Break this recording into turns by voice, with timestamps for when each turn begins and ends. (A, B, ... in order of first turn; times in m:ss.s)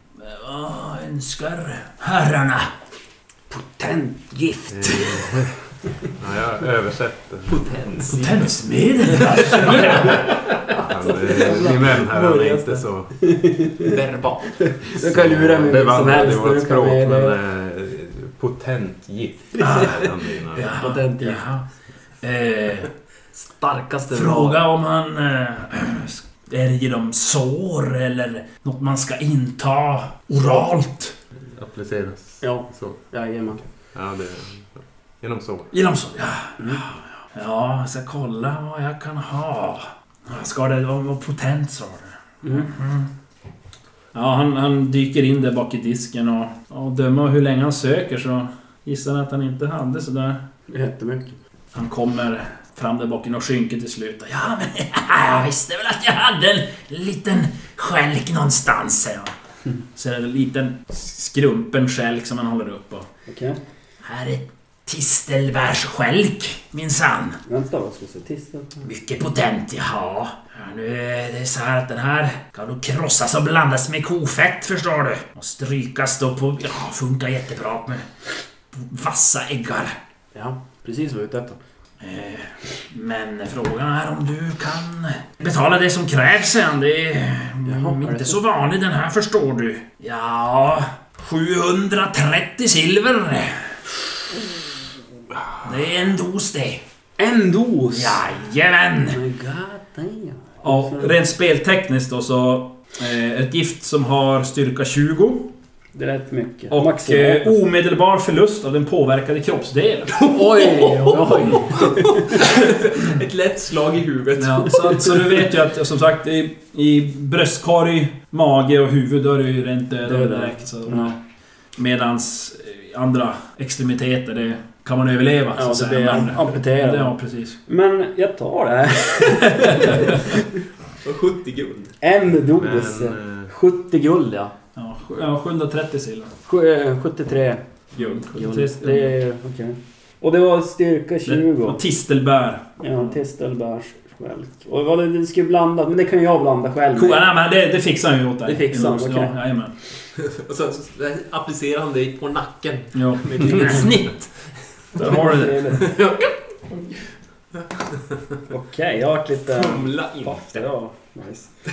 0:00.2-0:02.7 A
0:03.5-0:05.3 B
0:04.7-0:05.5 C
0:06.2-0:07.6 C
0:07.5-0:08.5 D
0:08.1-0:10.3 A
0:09.4-0:10.2 D
0:10.6-0:13.1 C
0:11.0-0:14.0 B
0:13.8-0:14.5 D
0:14.6-0:17.4 B
0:15.0-0:20.8 C
0:19.6-0:20.0 B
0:19.6-0:19.9 A
0:20.5-0:21.6 A
0:20.7-0:21.4 B
0:22.2-0:22.9 A
0:23.4-0:24.6 B
0:24.1-0:31.1 A
0:31.6-0:33.0 C
0:32.4-0:33.6 B
0:33.9-0:35.7 C
0:35.7-0:43.1 A
0:42.4-0:42.7 B
0:44.1-0:50.4 A
0:50.7-0:51.4 B
0:51.7-0:59.3 A
1:00.0-1:03.0 A
1:03.3-1:03.6 B
1:04.0-1:07.4 A
1:07.5-1:08.8 B
1:08.8-1:18.0 A
1:18.7-1:19.9 A
1:20.3-1:21.6 B
1:22.0-1:33.8 A
1:27.6-1:28.4 B
1:35.6-1:36.8 A
1:37.2-1:38.2 B
1:37.9-1:39.2 A
1:39.1-1:41.1 B
1:40.6-1:45.5 A
1:45.9-1:47.6 B
1:46.7-1:50.2 A
1:50.2-1:55.3 D
1:50.2-1:52.3 B
1:51.3-1:51.6 A
1:54.4-2:01.2 A
2:00.0-2:01.2 B
2:01.8-2:07.6 A
2:05.6-2:07.1 B
2:07.7-2:10.4 B
2:11.0-2:11.9 D
2:12.0-2:14.5 B
2:12.5-2:13.5 C
2:14.8-2:16.3 A
2:16.4-2:17.6 B
2:18.0-2:18.2 D
2:18.0-2:19.2 A
2:18.3-2:21.8 B
2:21.2-2:23.1 A
2:22.8-2:27.3 B
2:26.9-2:29.7 A
2:28.4-2:29.3 B
2:30.1-2:34.0 D
2:32.9-2:34.3 A
2:33.3-2:33.9 B
2:34.9-2:35.8 A
2:35.0-2:35.9 B
2:35.8-2:36.3 D
2:38.5-2:41.5 B
2:39.5-2:40.7 D